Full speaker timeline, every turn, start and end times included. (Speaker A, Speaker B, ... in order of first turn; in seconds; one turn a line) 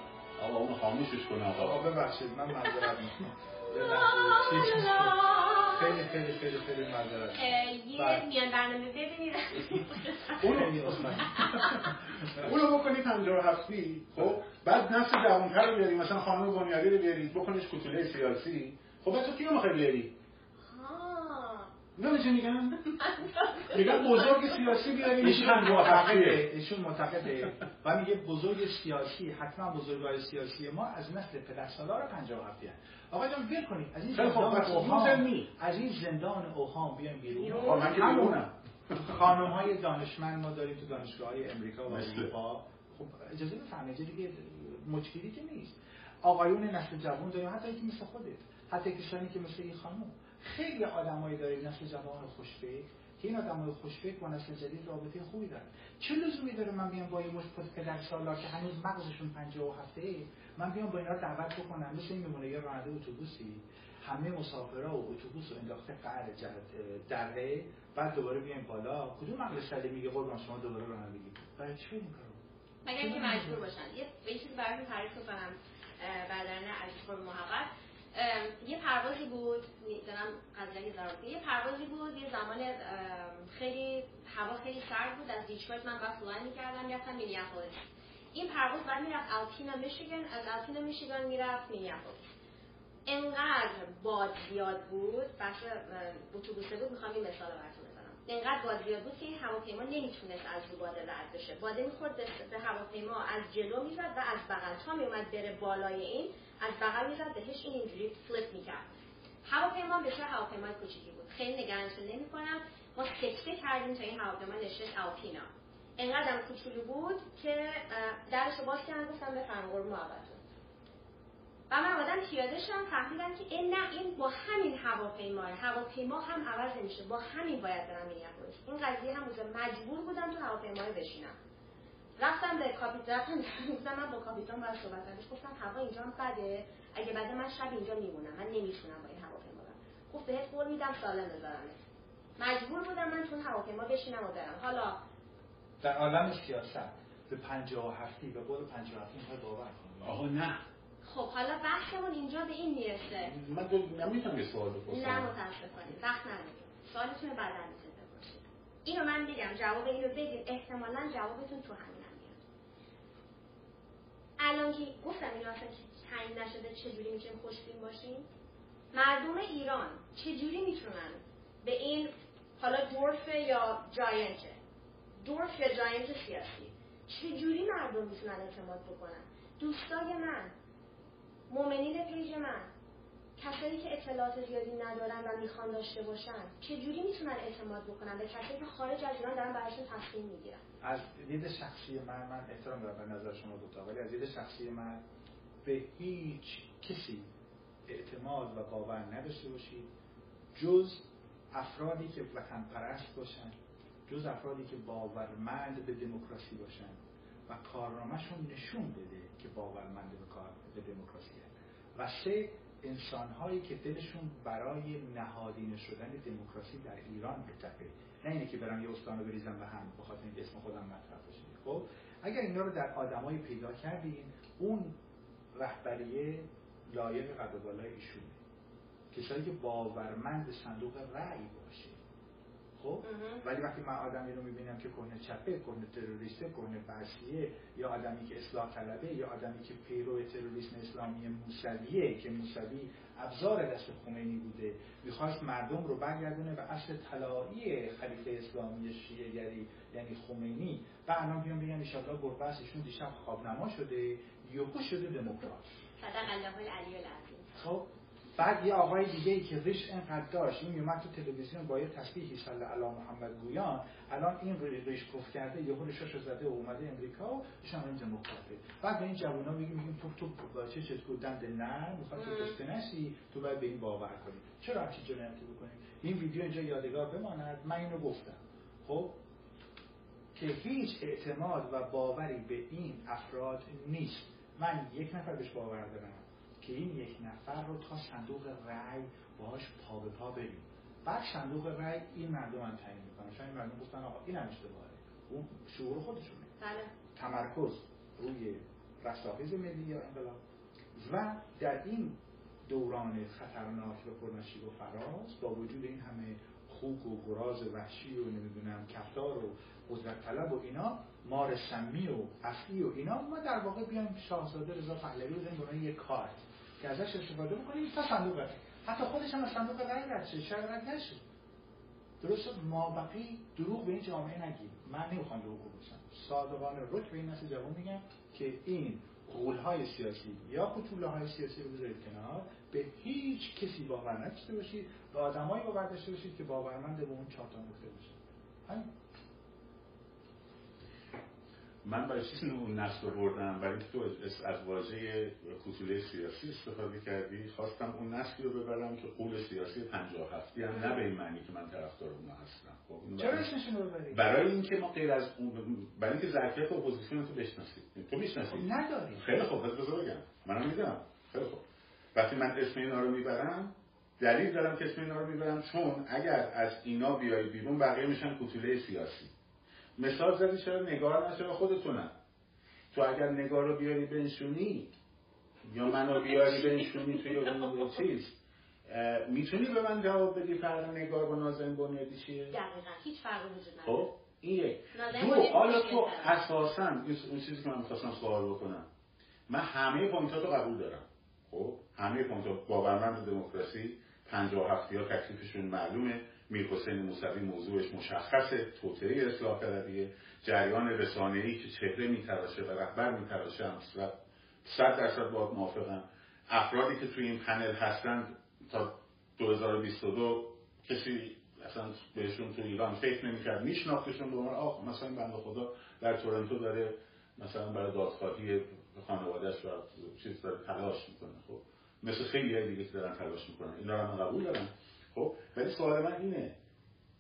Speaker A: 0.4-1.9
Speaker B: 1.6-5.2
Speaker C: 3.7-6.0
Speaker B: 5.8-8.3
Speaker C: 7.3-10.4
Speaker A: 10.4-20.1
Speaker B: 10.4-11.7
Speaker C: 11.3-11.9
Speaker C: 20.6-21.7
Speaker A: 22.0-23.1
Speaker C: 23.1-23.8
Speaker A: 23.7-26.4
Speaker B: 23.8-38.4
Speaker A: 34.1-35.5
Speaker C: 37.3-38.1
Speaker A: 37.5-39.3
Speaker B: 39.0-72.4
Speaker A: 41.9-42.3
Speaker C: 72.8-92.3
Speaker B: 73.0-73.7
Speaker C: 93.1-108.9
Speaker C: 109.4-120.4
Speaker C: 121.7-131.3
Speaker C: 132.2-141.8
Speaker C: 142.4-145.0
Speaker B: 145.8-150.2
Speaker A: 150.0-150.6
Speaker C: 151.0-153.3
Speaker A: 153.2-155.3
Speaker C: 154.9-162.4
Speaker C: 164.4-168.3
Speaker C: 168.9-174.6
Speaker C: 175.2-180.5
Speaker C: 181.5-182.7
Speaker C: 183.4-190.6
Speaker B: 190.8-195.0
Speaker B: 195.6-197.3
Speaker B: 197.9-199.9
Speaker B: 200.5-203.6
Speaker B: 204.1-225.0
Speaker B: 225.5-228.4
Speaker B: 229.1-232.0
Speaker B: 232.8-255.7
Speaker C: 233.0-233.4
Speaker C: 256.0-257.6
Speaker B: 257.6-279.2
Speaker C: 272.1-272.6
Speaker B: 280.4-296.5
Speaker C: 296.6-296.9
Speaker B: 297.1-300.4
Speaker B: 300.9-321.2
Speaker B: 322.2-338.9
Speaker A: 341.8-353.5
Speaker C: 350.7-351.0
Speaker B: 353.2-354.4
Speaker A: 354.1-361.6
Speaker B: 358.5-359.3
Speaker A: 362.1-369.3
Speaker A: 370.0-372.1
Speaker A: 372.9-374.9
Speaker A: 375.6-382.5
Speaker C: 376.3-377.5
Speaker C: 382.5-384.1
Speaker A: 383.9-388.9
Speaker C: 384.9-386.4
Speaker A: 389.5-404.1
Speaker A: 404.6-426.6